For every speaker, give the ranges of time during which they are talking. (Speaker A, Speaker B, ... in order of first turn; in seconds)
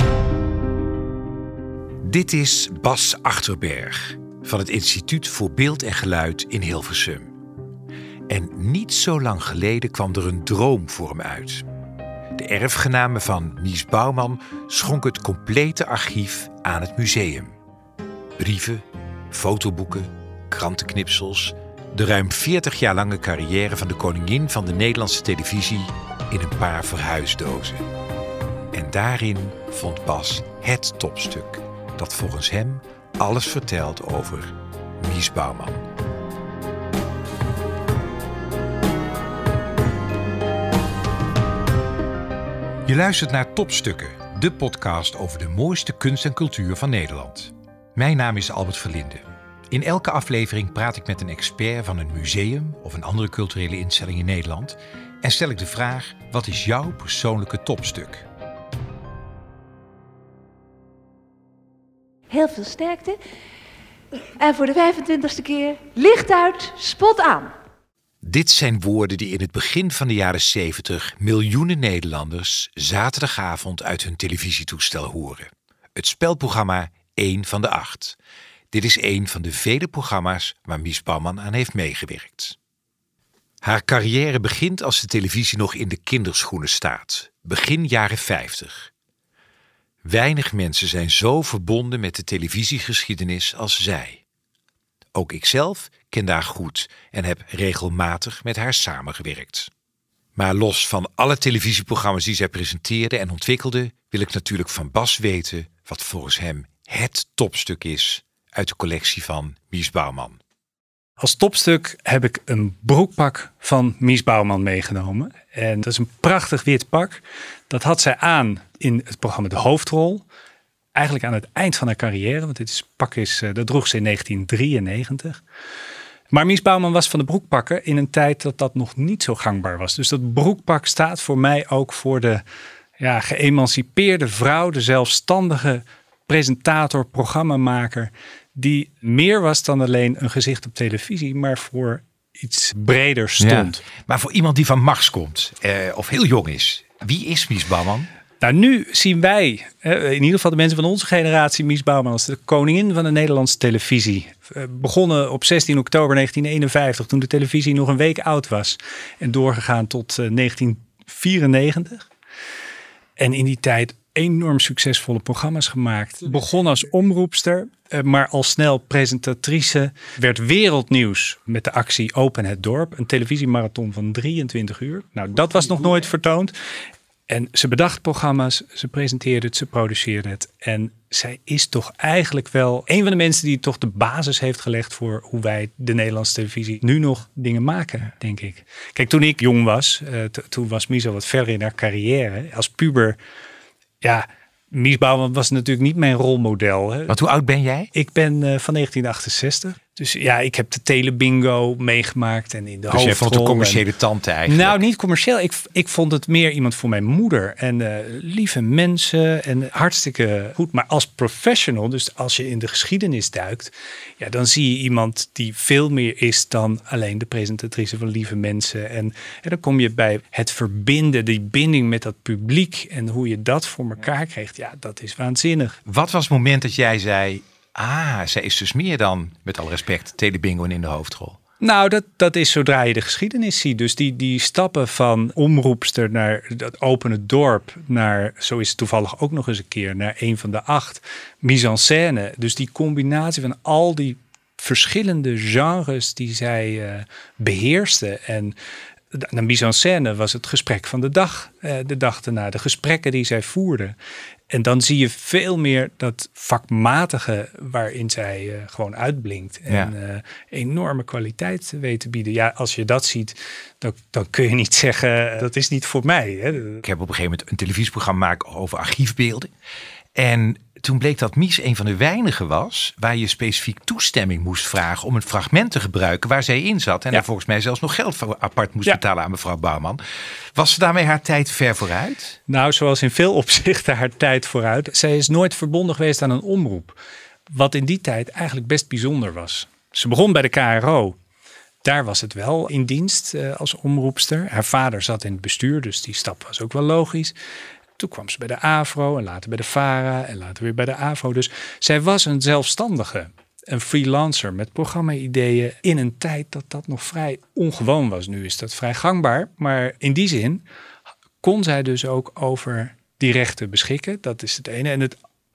Speaker A: 2.0-7.3, 8.3-11.7, 12.4-17.5, 18.4-27.8, 28.7-35.8, 42.9-58.3, 68.2-78.2, 78.7-82.6, 83.6-88.9, 90.0-94.2, 95.1-99.7, 100.3-110.4, 143.4-148.1, 197.1-197.9, 202.9-204.8, 225.9-231.4, 259.7-259.9, 266.8-269.5, 270.1-280.0, 280.6-282.4
Speaker B: 62.3-63.2, 64.4-67.5
Speaker C: 111.2-120.2, 120.9-125.4, 126.3-132.4, 133.0-143.8, 148.4-162.1, 163.2-176.5, 177.3-193.2, 194.0-197.2, 197.9-203.8, 204.4-225.8, 231.6-248.6, 249.1-254.0, 254.5-266.8, 282.5-287.0, 287.5-291.2, 291.8-297.4, 298.0-310.6, 311.4-315.2